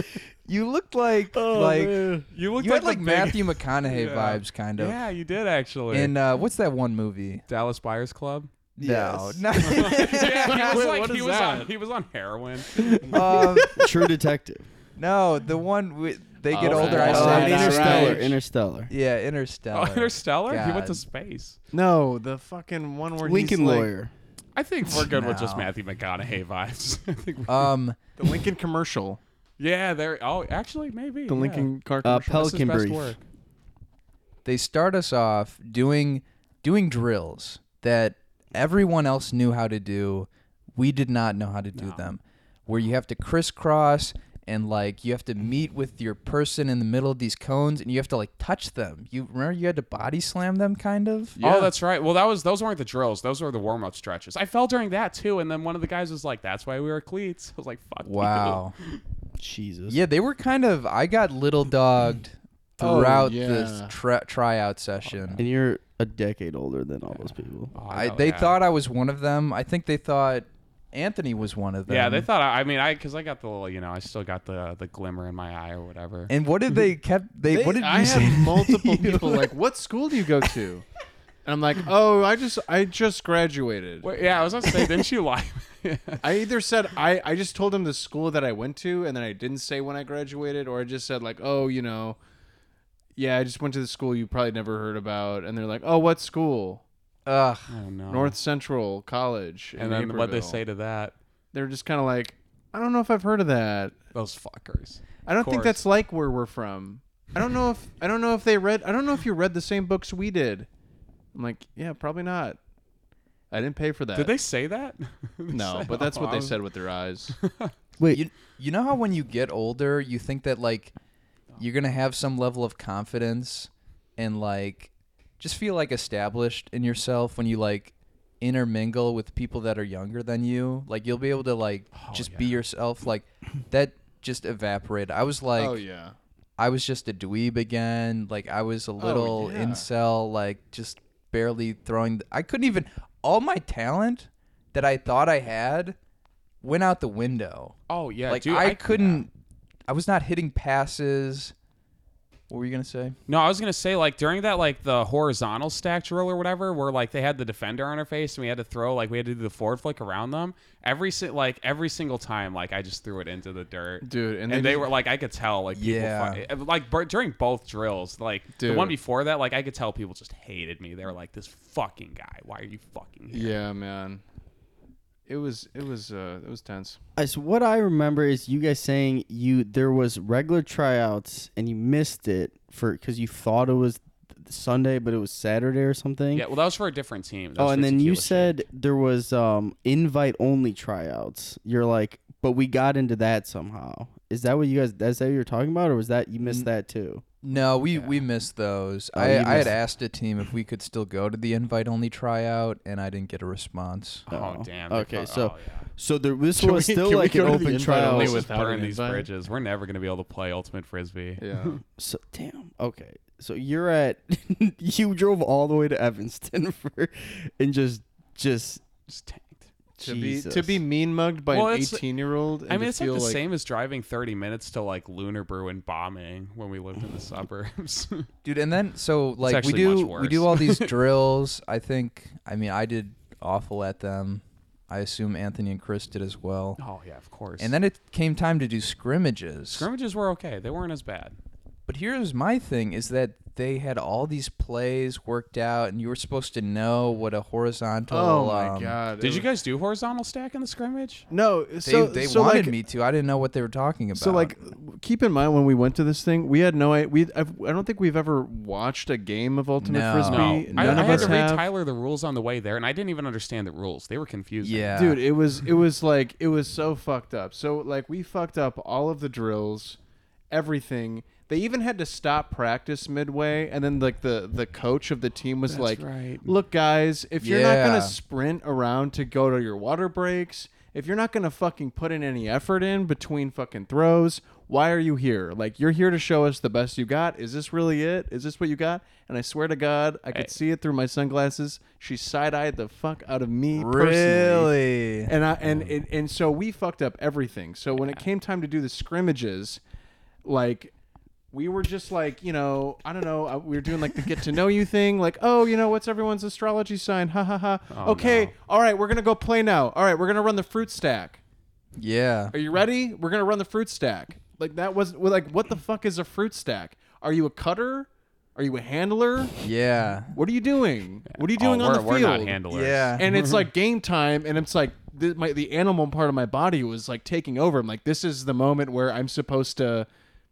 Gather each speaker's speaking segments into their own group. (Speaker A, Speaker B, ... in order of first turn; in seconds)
Speaker A: 0.5-5.0, 5.9-7.4, 8.8-10.9, 13.1-13.8, 15.0-18.4, 18.9-21.0, 24.9-25.7, 27.5-28.0, 34.5-51.4, 58.0-58.7, 59.9-65.4, 67.9-72.3, 76.3-79.5, 97.3-97.7, 118.1-120.9, 121.6-135.8, 136.6-146.0, 146.6-147.8, 148.3-149.3, 149.9-151.5, 152.5-153.2, 165.7-166.4, 197.4-204.3, 228.4-236.8, 237.6-239.9, 241.9-249.0, 251.8-254.5, 259.8-261.4, 264.6-265.2, 277.4-278.2, 293.7-295.3, 312.0-312.5, 319.6-320.4, 322.7-323.2
Speaker B: 1.4-2.2, 8.8-9.5, 12.8-14.7, 16.6-18.9, 23.2-24.1, 32.0-33.2, 59.4-60.0, 65.4-67.7, 118.0-118.2, 177.2-186.5, 187.6-197.2, 199.1-199.8, 204.3-208.5, 212.0-218.8, 220.0-220.8
Speaker C: 2.3-6.1, 7.5-8.5, 9.6-13.0, 16.9-18.1, 19.7-21.6, 24.6-27.7, 29.6-31.7, 32.3-33.2, 41.8-42.0, 51.4-59.0, 65.0-65.4, 67.1-68.6, 71.9-76.3, 84.0-86.4, 97.7-98.4, 99.8-101.2, 104.1-105.8, 114.1-116.6, 117.4-117.7, 131.9-132.6, 147.9-149.2, 153.3-173.6, 186.3-188.6, 204.3-205.9, 208.1-211.7, 219.1-219.7, 221.5-222.1, 222.7-228.3, 229.4-230.9, 236.8-237.7, 239.7-241.4, 249.2-251.2, 260.2-264.9, 275.7-276.5, 295.6-295.9, 297.9-298.2, 307.9-308.5, 321.4-323.7
Speaker D: 10.2-11.7, 16.5-18.4, 21.7-23.9, 28.2-29.2, 31.3-32.6, 51.4-51.7, 62.8-63.9, 77.5-80.8, 81.5-84.1, 86.2-92.2, 93.2-96.8, 98.1-100.6, 101.5-104.0, 105.3-110.7, 111.3-112.6, 113.5-114.3, 115.5-117.4, 135.6-136.2, 139.0-139.9, 164.0-164.9, 168.6-168.9, 173.3-174.2, 175.3-177.0, 206.6-209.3, 211.4-211.8, 220.0-223.4, 248.1-249.5, 251.3-252.8, 254.2-261.7, 264.9-270.0, 270.5-294.7, 295.3-299.8, 300.4-300.9, 301.5-311.4, 312.5-319.6, 320.3-322.6, 323.2-330.1